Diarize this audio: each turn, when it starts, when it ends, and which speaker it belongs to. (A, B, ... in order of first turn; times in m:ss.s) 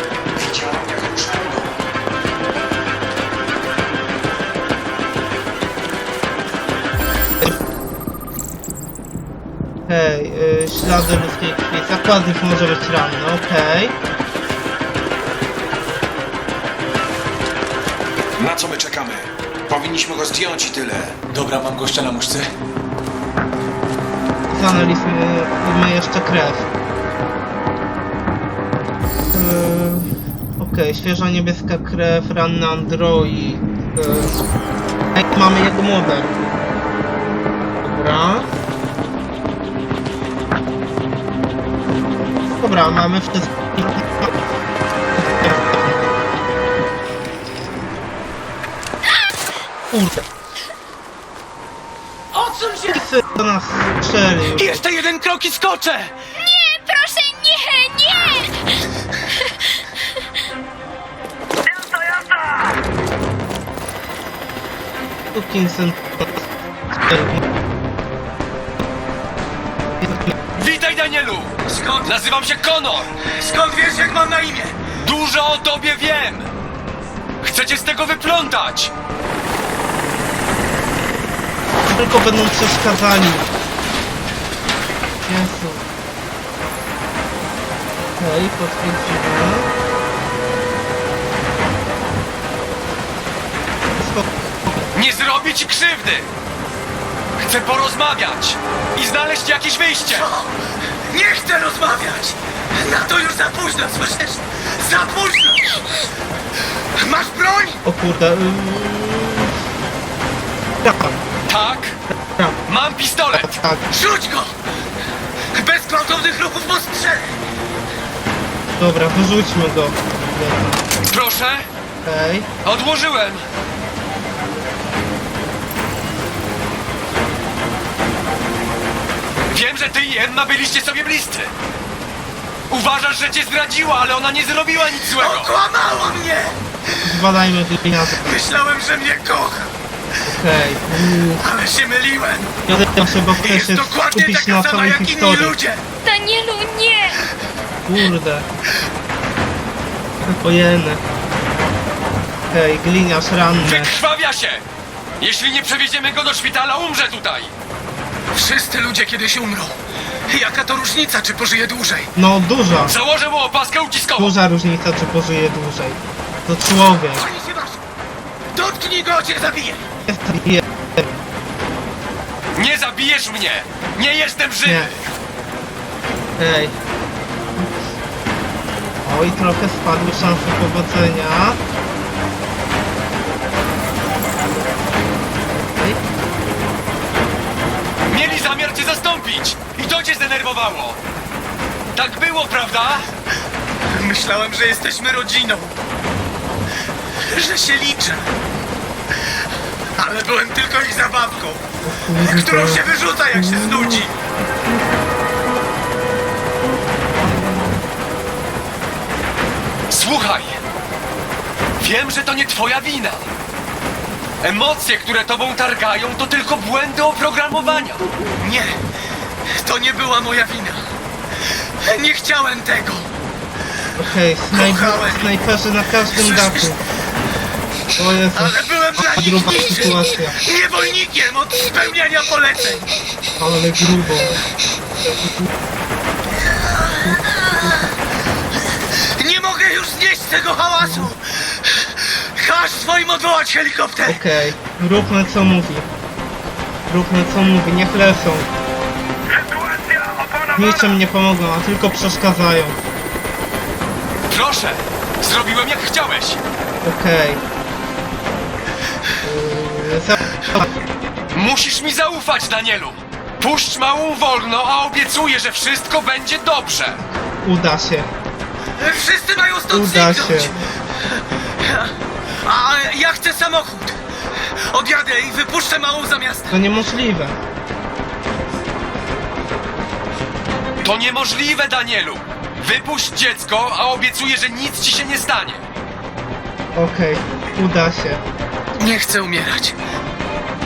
0:00.3-0:01.7 A
0:09.9-0:14.0 B
0:18.4-0:22.5 A
0:24.5-0:26.7 B
0:29.3-0:34.4 B
0:35.1-0:36.3 B
0:37.8-0:38.5 B
0:42.6-0:44.3 B
0:45.2-0:46.0 B
0:49.9-0:50.2 B
0:52.3-0:53.0 C
0:52.9-0:54.8 B
0:54.5-0:56.1 C
0:56.4-0:58.5 D
0:59.3-1:00.2 D
1:05.3-1:06.4 B
1:07.0-1:07.4 B
1:10.0-1:10.3 B
1:10.6-1:13.1 E
1:11.6-1:12.2 C
1:13.2-1:14.8 C
1:15.0-1:16.5 E
1:17.4-1:18.9 E
1:21.9-1:23.5 B
1:25.2-1:25.8 B
1:28.2-1:29.7 B
1:34.0-1:34.8 B
1:34.9-1:36.3 E
1:37.4-1:40.3 E
1:40.0-1:40.6 C
1:41.1-1:46.0 C
1:47.0-1:47.8 C
1:47.8-1:49.5 B
1:50.8-1:51.2 B
1:51.5-1:52.0 E
1:52.7-1:53.6 E
1:53.3-1:53.8 B
1:53.9-1:54.6 C
1:55.5-1:57.4 C
1:58.8-2:00.9 B
2:01.1-2:01.7 E
2:02.0-2:02.5 B
2:02.6-2:03.4 E
2:09.5-2:11.5 E
2:12.7-2:15.5 E
2:15.2-2:16.6 C
2:17.0-2:18.3 B
2:18.2-2:19.7 C
2:20.2-2:21.4 B
2:21.2-2:22.6 C
2:22.7-2:25.5 B
2:23.4-2:25.8 C
2:26.0-2:27.2 D
2:27.8-2:28.5 B
2:30.4-2:31.0 B
2:32.5-2:33.9 B
2:33.6-2:34.6 E
2:35.2-2:37.5 E
2:38.3-2:42.1 C
2:42.2-2:42.9 B
2:42.9-2:44.3 E
2:44.2-2:47.2 B
2:47.1-2:47.8 C
2:48.5-2:49.8 C
2:50.1-2:51.1 B
2:52.6-2:54.9 E
2:54.6-2:54.9 B
2:56.4-2:56.8 B
2:59.0-3:01.6 B
3:05.7-3:06.0 B
3:08.1-3:11.0 E
3:11.9-3:13.1 E
3:13.9-3:15.8 C
3:17.2-3:18.3 C
3:20.0-3:21.6 C
3:21.8-3:22.8 B
3:22.2-3:24.2 C
3:29.9-3:30.6 E
3:31.8-3:33.3 E
3:34.4-3:38.1 E
3:38.4-3:38.8 C
3:39.5-3:40.8 C
3:41.8-3:43.1 C
3:44.0-3:46.8 B
3:44.5-3:45.3 C
3:46.1-3:46.8 C
3:48.0-3:50.4 B
3:48.3-3:52.9 C
3:53.4-3:54.4 B
3:56.4-3:57.9 C
3:59.2-4:04.2 C
4:04.1-4:05.9 B
4:06.9-4:08.5 B
4:10.5-4:12.8 B
4:14.3-4:16.4 E
4:16.8-4:17.4 B
4:19.2-4:20.7 B
4:21.3-4:27.0 E
4:27.4-4:28.1 B
4:28.8-4:31.9 C
4:29.7-4:30.5 B
4:32.4-4:34.0 C
4:34.7-4:36.6 C
4:36.5-4:37.4 B
4:40.8-4:45.6 E
4:46.7-4:48.2 B
4:48.8-4:49.8 C